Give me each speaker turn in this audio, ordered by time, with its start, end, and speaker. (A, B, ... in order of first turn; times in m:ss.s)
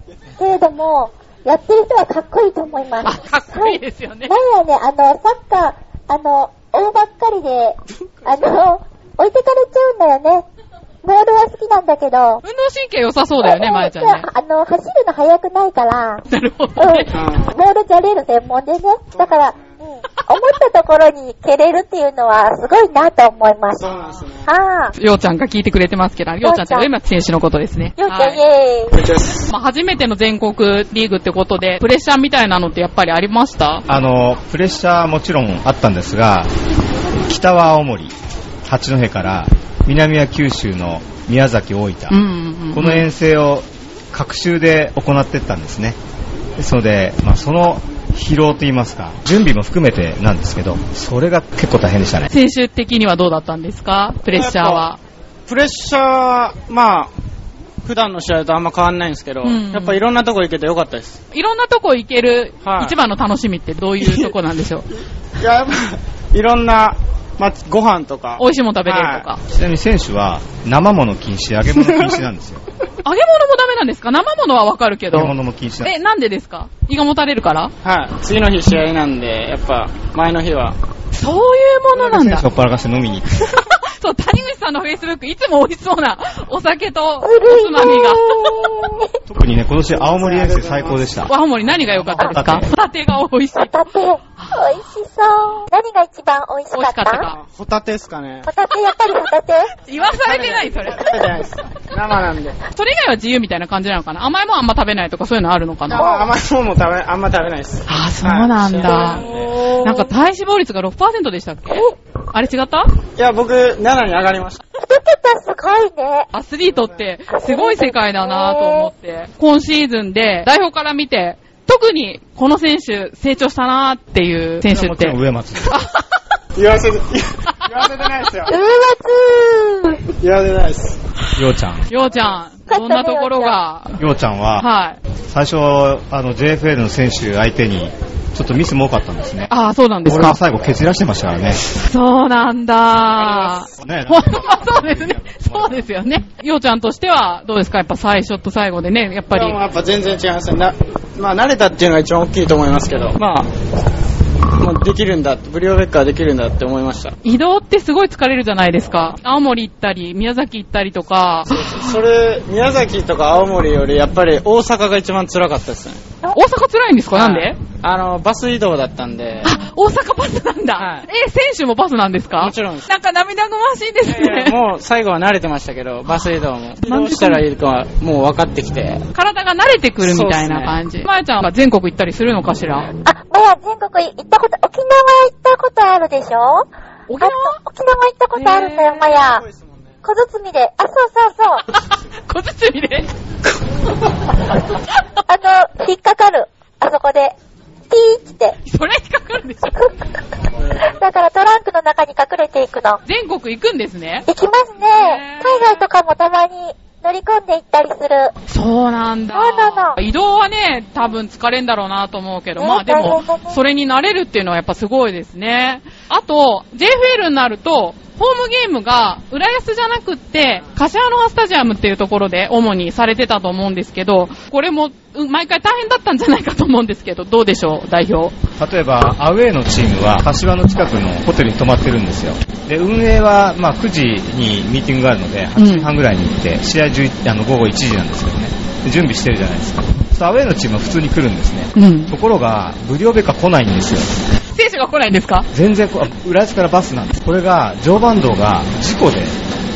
0:00.4-0:10.4 A
0:03.0-0:04.4 B
0:11.0-0:12.4 A
0:12.4-0:14.3 B
0:13.4-0:16.2 A
0:16.3-0:17.1 B
0:16.8-0:23.9 A
0:17.1-0:17.5 C
0:19.2-0:19.5 C
0:23.8-0:24.5 C
0:24.5-0:24.9 A
0:25.0-0:28.4 B
0:26.4-0:26.9 A
0:28.0-0:29.0 A
0:28.9-0:29.5 C
0:29.5-0:33.9 B
0:33.9-0:36.5 D
0:37.2-0:38.1 D
0:38.6-0:42.2 D
0:42.1-0:43.1 B
0:42.7-0:46.0 D
0:46.6-0:52.3 D
0:52.3-0:55.0 B
0:54.3-0:54.9 C
0:55.5-0:57.1 C
0:57.8-1:01.2 C
0:59.4-1:00.0 B
1:01.3-1:04.9 B
1:02.6-1:03.0 C
1:04.0-1:04.3 C
1:04.9-1:09.3 C
1:08.4-1:09.4 B
1:09.5-1:12.6 D
1:11.8-1:12.2 C
1:13.0-1:17.7 B
1:15.1-1:15.9 D
1:17.8-1:20.8 C
1:21.1-1:22.5 B
1:21.9-1:23.6 D
1:23.6-1:28.7 B
1:27.2-1:29.1 A
1:29.3-1:32.7 D
1:30.0-1:31.1 C
1:31.3-1:33.8 B
1:33.6-1:37.3 A
1:36.8-1:37.4 B
1:37.3-1:38.5 C
1:38.5-1:39.7 A
1:39.9-1:41.2 B
1:40.1-1:42.6 C
1:42.7-1:46.1 B
1:45.9-1:49.7 C
1:46.0-1:46.2 A
1:47.9-1:52.9 B
1:49.3-1:50.0 A
1:53.2-1:54.6 C
1:54.8-1:56.3 A
1:56.3-2:06.0 B
1:57.3-1:58.9 A
2:04.6-2:05.8 D
2:06.6-2:08.6 C
2:08.5-2:10.0 A
2:10.1-2:11.0 C
2:11.4-2:11.9 D
2:11.9-2:14.0 B
2:12.7-2:13.6 A
2:14.0-2:14.7 D
2:14.6-2:15.0 B
2:15.3-2:19.5 D
2:19.5-2:20.4 B
2:20.1-2:21.6 D
2:21.8-2:29.6 B
2:23.3-2:23.6 C
2:23.7-2:25.9 D
2:29.3-2:33.5 C
2:34.6-2:37.2 C
2:37.2-2:41.9 B
2:41.5-2:46.0 C
2:46.3-2:47.6 B
2:47.1-2:49.6 C
2:49.4-2:54.6 B
2:50.8-2:51.1 C
2:52.4-2:52.9 C
2:54.0-2:59.1 C
2:56.8-2:57.4 B
2:59.1-3:02.9 B
3:00.0-3:00.8 C
3:03.0-3:09.4 A
3:07.1-3:07.6 B
3:08.4-3:09.1 B
3:09.1-3:09.9 C
3:10.0-3:11.6 A
3:11.7-3:13.1 B
3:15.3-3:17.3 A
3:17.9-3:18.6 A
3:18.6-3:19.8 B
3:20.8-3:23.0 A
3:23.0-3:24.3 B
3:24.3-3:28.3 A
3:24.9-3:25.9 B
3:28.5-3:48.4 B
3:29.3-3:30.0 A
3:32.6-3:33.6 A
3:48.6-4:04.2 D
3:55.6-3:55.9 B
4:01.8-4:02.1 B
4:04.5-4:05.5 B
4:05.5-4:09.4 D